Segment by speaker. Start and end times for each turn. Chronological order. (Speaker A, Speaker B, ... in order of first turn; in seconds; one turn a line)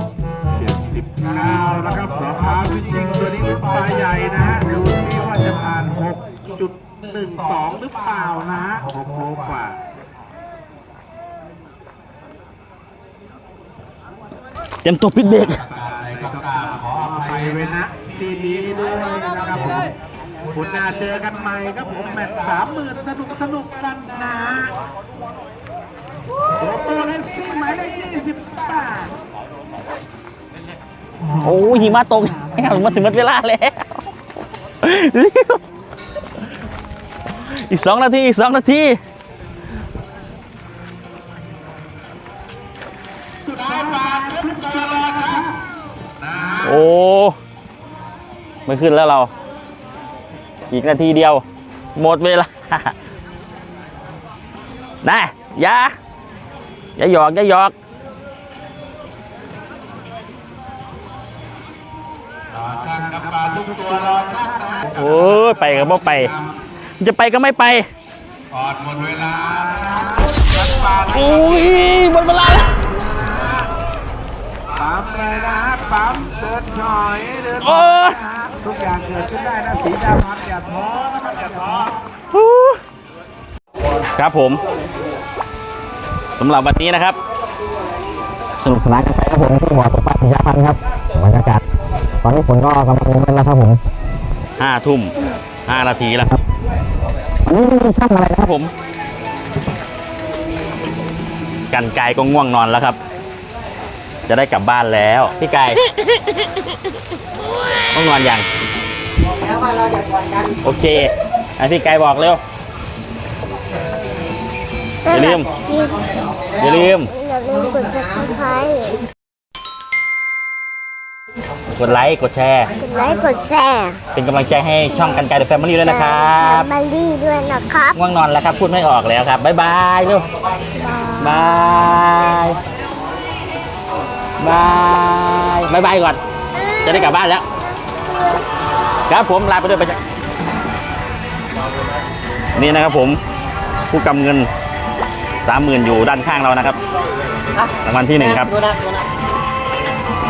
Speaker A: 0.6-9.8
Speaker B: 14.8-15.6
Speaker C: 15.7-17.4
Speaker A: 16.1-19.9
Speaker A: 20.5-24.8
Speaker A: 26.5-29.1
Speaker A: 31.2-33.2
Speaker B: 31.4-34.0
Speaker B: 34.8-35.6
Speaker B: 37.5-39.0
Speaker A: 43.5-45.5
Speaker C: 43.8-45.4
Speaker C: 46.2-46.8
Speaker B: 46.6-47.4
Speaker B: 48.6-49.3
Speaker B: 50.7-51.4
Speaker B: 52.0-52.9
Speaker B: 55.0-56.0
Speaker B: 57.0-57.7
Speaker C: 62.5-66.5
Speaker B: 64.9-66.3
Speaker B: 67.0-67.9
Speaker C: 68.5-71.8
Speaker B: 71.1-72.8
Speaker A: 72.8-73.7
Speaker A: 74.7-82.1
Speaker B: 77.6-78.2
Speaker B: 82.3-82.8
Speaker B: 84.2-84.6
Speaker B: 86.4-87.2
Speaker B: 88.6-91.6
Speaker B: 92.2-93.8
Speaker B: 94.6-96.4
Speaker B: 97.5-98.7
Speaker B: 101.7-103.0
Speaker B: 104.3-105.8
Speaker B: 107.9-108.5
Speaker D: 109.2-110.7
Speaker B: 110.6-112.4
Speaker E: 115.0-116.0
Speaker B: 115.1-115.5
Speaker D: 116.0-116.9
Speaker B: 116.6-117.1
Speaker E: 117.0-119.0
Speaker D: 117.8-118.2
Speaker B: 121.8-122.7
Speaker E: 122.8-124.0
Speaker B: 124.1-126.7
Speaker E: 124.9-128.0
Speaker B: 128.0-130.3
Speaker E: 130.8-131.7
Speaker B: 131.2-132.6
Speaker B: 134.4-136.2
Speaker E: 136.5-137.2
Speaker B: 136.8-137.5
Speaker E: 138.0-138.5
Speaker B: 139.1-140.0
Speaker B: 142.6-143.2
Speaker B: 143.9-144.5
Speaker B: 145.4-146.8
Speaker D: 147.5-149.1
Speaker B: 147.8-148.5